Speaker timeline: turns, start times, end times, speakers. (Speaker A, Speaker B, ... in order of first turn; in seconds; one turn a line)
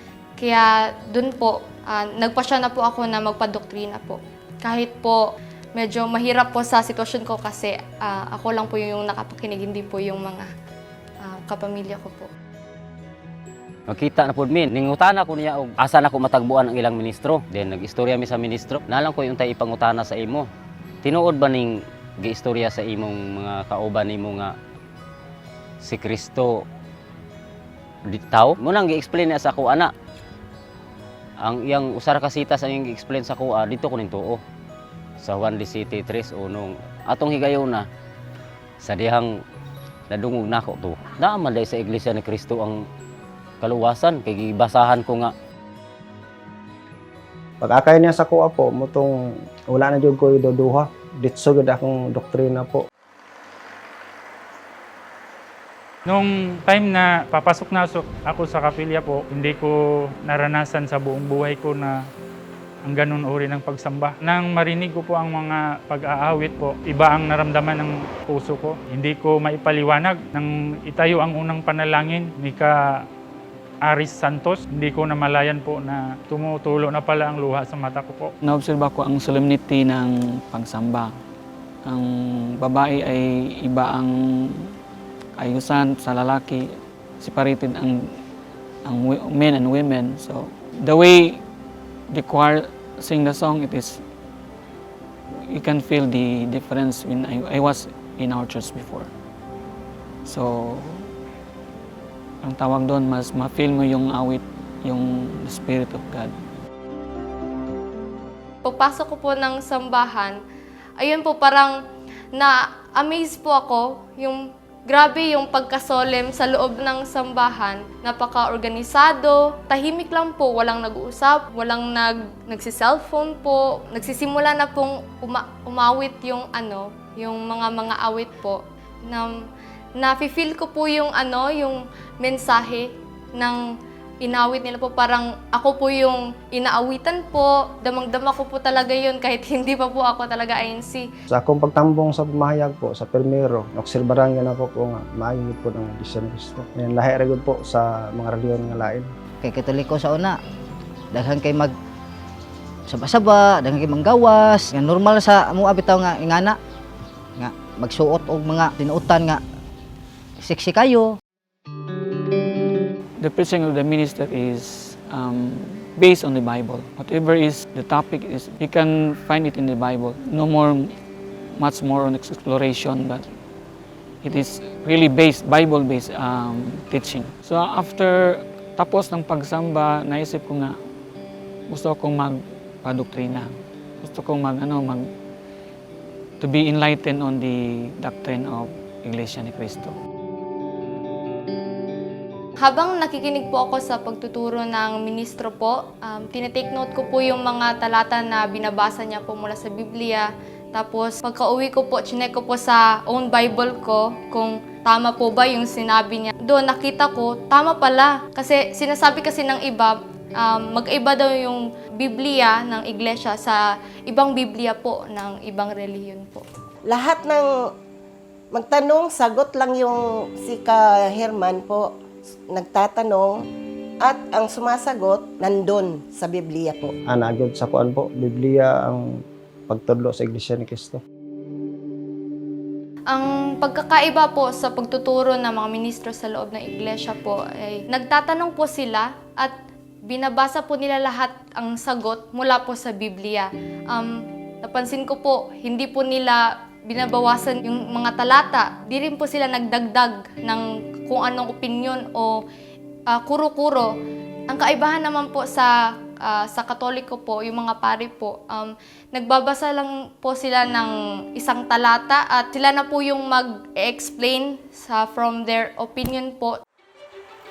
Speaker A: 0.4-10.5
Speaker A: 11.2-12.3
Speaker B: 13.9-20.5
Speaker B: 21.0-24.5
Speaker B: 25.8-26.6
Speaker B: 28.1-29.9
Speaker B: 31.4-34.4
Speaker B: 35.2-37.8
Speaker B: 38.8-39.3
Speaker B: 40.1-42.8
Speaker B: 43.6-45.3
Speaker C: 47.6-52.8
Speaker D: 56.1-59.7
Speaker D: 60.2-61.9
Speaker D: 62.9-72.7
Speaker D: 73.8-78.3
Speaker E: 78.4-81.1
Speaker E: 81.9-84.7
Speaker E: 85.4-86.7
Speaker E: 87.2-88.2
Speaker E: 88.8-91.4
Speaker E: 92.1-94.0
Speaker E: 95.5-99.1
Speaker E: 100.2-101.1
Speaker E: 102.4-106.3
Speaker A: 108.6-110.4
Speaker A: 111.0-111.8
Speaker A: 112.3-129.4
Speaker A: 130.0-133.6
Speaker A: 134.2-141.1
Speaker C: 141.3-149.1
Speaker F: 149.4-150.4
Speaker F: 151.1-151.7
Speaker F: 152.9-156.6
Speaker F: 157.4-159.4
Speaker F: 160.4-161.2
Speaker E: 163.2-170.9
Speaker E: 171.6-173.3
Speaker E: 174.2-180.8
Speaker E: 181.7-185.1
Speaker E: 186.4-189.9
Speaker A: 192.6-216.4
Speaker G: 216.9-217.7
Speaker G: 218.5-221.9
Speaker G: 222.5-223.4
Speaker G: 224.0-226.9
Speaker C: 227.1-229.1
Speaker C: 229.7-231.0
Speaker A: 233.1-239.5
Speaker A: 240.1-252.4
Speaker A: 253.1-253.9
Speaker A: 254.5-266.6